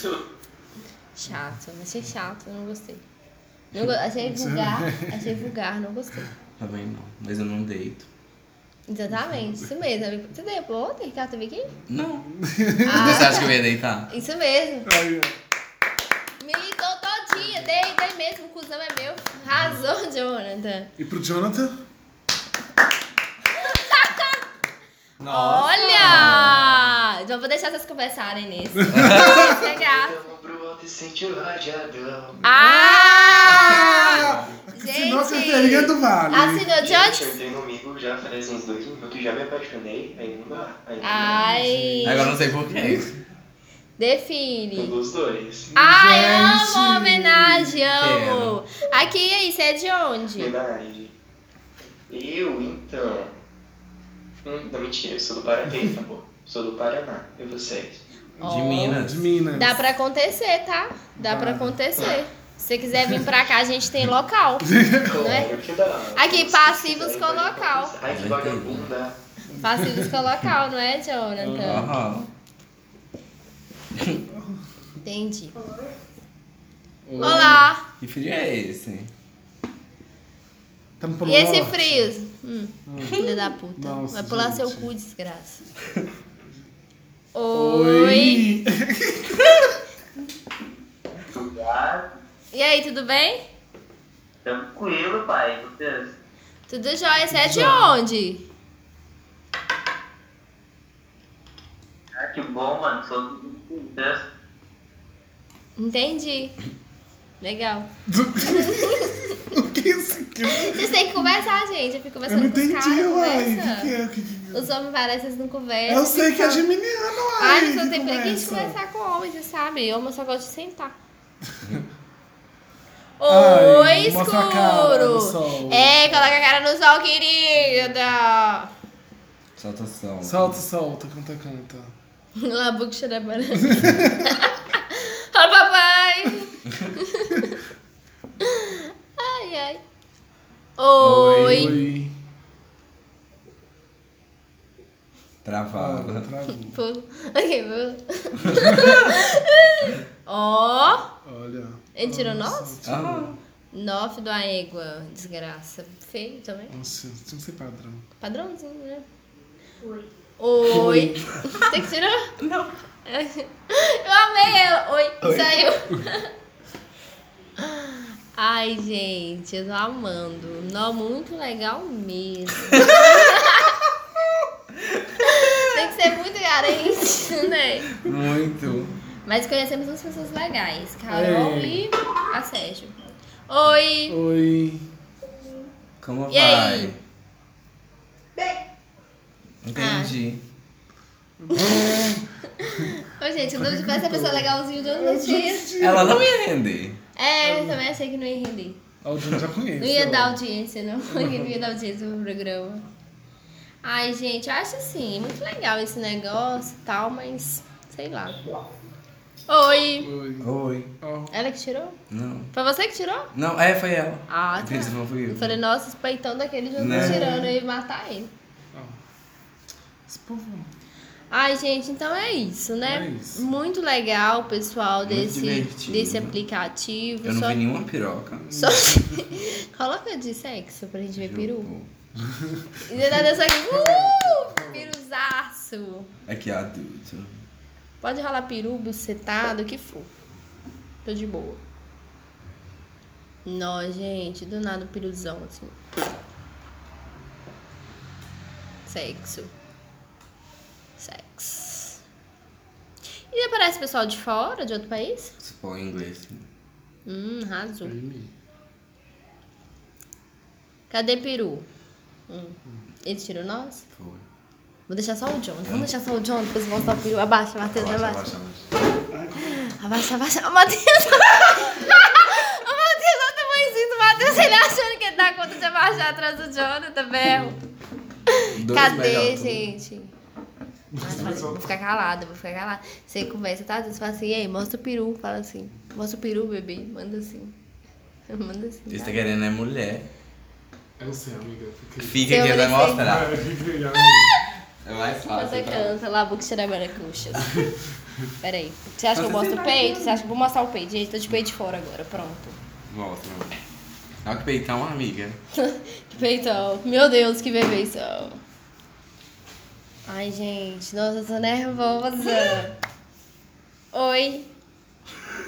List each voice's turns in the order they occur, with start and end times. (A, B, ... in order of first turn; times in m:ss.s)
0:01.2-0:03.0 A
0:03.7-0:06.3 A
0:04.2-0:05.4 B
0:06.6-0:08.1 C
0:08.9-0:11.7 A
0:11.9-0:12.2 C
0:12.2-0:13.4 B
0:12.8-0:13.5 A
0:12.9-0:14.1 C
0:14.1-0:14.9 A
0:14.9-0:15.3 B
0:16.4-0:20.9 A
0:21.0-0:21.7 B
0:23.6-0:24.4 A
0:25.2-0:26.6 C
0:25.3-0:30.1 A
0:26.0-0:26.8 B
0:28.8-0:29.6 B
0:28.9-0:29.4 C
0:29.4-0:32.4 D
0:32.4-0:37.3 A
0:32.5-0:36.7 B
0:36.8-0:41.6 D
0:41.0-0:42.3 A
0:41.6-0:42.1 B
0:42.0-0:43.1 C
0:42.7-0:43.0 B
0:44.0-0:44.9 A
0:44.8-0:45.7 D
0:45.7-0:47.8 B
0:45.8-0:50.5 A
0:48.0-0:48.6 C
0:50.4-0:51.1 D
0:52.1-0:53.3 D
0:54.4-0:58.0 D
0:58.4-0:59.0 A
0:58.4-0:59.3 C
0:58.8-0:59.8 B
0:59.5-1:05.5 A
1:01.2-1:01.8 B
1:04.6-1:05.2 B
1:05.0-1:09.2 D
1:06.2-1:07.9 A
1:08.1-1:08.9 C
1:09.6-1:10.2 B
1:09.6-1:12.0 A
1:11.4-1:12.0 B
1:11.6-1:12.3 C
1:15.0-1:15.6 A
1:17.1-1:17.7 B
1:17.2-1:17.8 A
1:18.0-1:19.1 C
1:21.0-1:22.1 B
1:21.2-1:25.6 A
1:22.9-1:23.2 B
1:23.8-1:24.9 B
1:27.3-1:28.5 A
1:27.5-1:29.6 B
1:31.3-1:32.0 E
1:32.5-1:33.4 A
1:34.5-1:36.1 E
1:36.7-1:38.4 A
1:37.3-1:38.0 B
1:42.2-1:44.2 E
1:45.8-1:46.6 A
1:47.4-1:47.9 A
1:48.1-1:51.2 B
1:48.4-1:49.4 A
1:50.5-1:53.9 A
1:52.3-1:54.7 B
1:54.5-1:56.6 A
1:55.9-1:58.8 B
1:57.4-2:01.0 A
2:03.2-2:08.7 A
2:03.3-2:06.4 B
2:07.6-2:08.0 B
2:09.6-2:10.6 C
2:10.2-2:11.9 B
2:12.4-2:17.5 A
2:13.7-2:14.2 B
2:18.4-2:19.8 A
2:20.8-2:21.8 A
2:21.0-2:22.1 B
2:21.0-2:21.8 C
2:25.4-2:26.3 C
2:25.7-2:26.8 B
2:26.7-2:31.0 A
2:31.2-2:33.3 B
2:32.0-2:32.8 A
2:32.8-2:33.4 C
2:33.7-2:36.7 A
2:36.7-2:38.1 B
2:38.2-2:39.0 A
2:40.4-2:42.3 A
2:40.7-2:41.2 B
2:42.4-2:42.7 C
2:43.1-2:46.3 A
2:45.2-2:45.6 C
2:47.6-2:53.7 A
2:55.2-2:57.9 A
2:58.0-2:58.9 C
2:59.3-3:03.0 A
3:01.1-3:01.9 B
3:03.5-3:04.2 A
3:04.1-3:04.8 B
3:06.0-3:07.0 C
3:06.3-3:07.0 A
3:09.6-3:10.4 C
3:09.8-3:10.2 A
3:11.4-3:12.2 B
3:11.6-3:11.8 A
3:12.6-3:15.7 A
3:13.6-3:16.3 B
3:15.8-3:17.0 C
3:17.2-3:18.8 A
3:17.4-3:17.8 B
3:19.0-3:20.4 B
3:19.8-3:22.8 A
3:21.1-3:21.6 B
3:23.8-3:28.4 A
3:29.5-3:30.1 A
3:30.0-3:30.5 B
3:30.4-3:30.9 C
3:31.0-3:31.4 B
3:31.3-3:32.0 A
3:32.1-3:32.5 C
3:32.5-3:33.3 A
3:33.3-3:35.6 C
3:34.3-3:38.3 A
3:36.8-3:37.3 C
3:36.8-3:37.5 B
3:40.1-3:40.7 B
3:41.3-3:47.6 A
3:42.8-3:43.4 B
3:45.0-3:46.4 C
3:47.2-3:48.5 C
3:48.5-3:49.2 B
3:48.5-3:51.7 A
3:51.2-3:51.9 C
3:52.3-3:53.1 B
3:52.9-3:56.1 A
3:53.7-3:54.9 B
3:56.3-3:57.4 C
3:58.0-4:00.1 A
4:01.0-4:01.6 A
4:03.5-4:05.8 A
4:08.9-4:09.5 A
4:11.0-4:12.0 A
4:13.3-4:15.3 A
4:15.4-4:16.5 C
4:17.1-4:18.0 A
4:17.8-4:18.3 B
4:20.9-4:21.7 A
4:22.3-4:23.8 A
4:23.9-4:24.2 C
4:24.9-4:28.2 A
4:27.7-4:28.7 C
4:29.1-4:29.7 B
4:29.4-4:37.6 A
4:38.4-4:40.1 A
4:38.6-4:39.7 C
4:40.9-4:41.7 B
4:41.0-4:47.5 A
4:48.3-4:49.2 A
4:48.9-4:50.1 C
4:51.0-4:52.3 B
4:52.0-4:53.3 C
4:52.3-4:53.0 A
4:53.0-4:54.3 B
4:54.8-4:55.9 C
4:55.3-4:57.7 A
4:58.4-5:02.6 A
4:59.1-5:00.2 C
5:02.9-5:03.5 C
5:04.2-5:05.4 C
5:05.6-5:08.4 A
5:10.1-5:12.7 A
5:13.9-5:14.5 A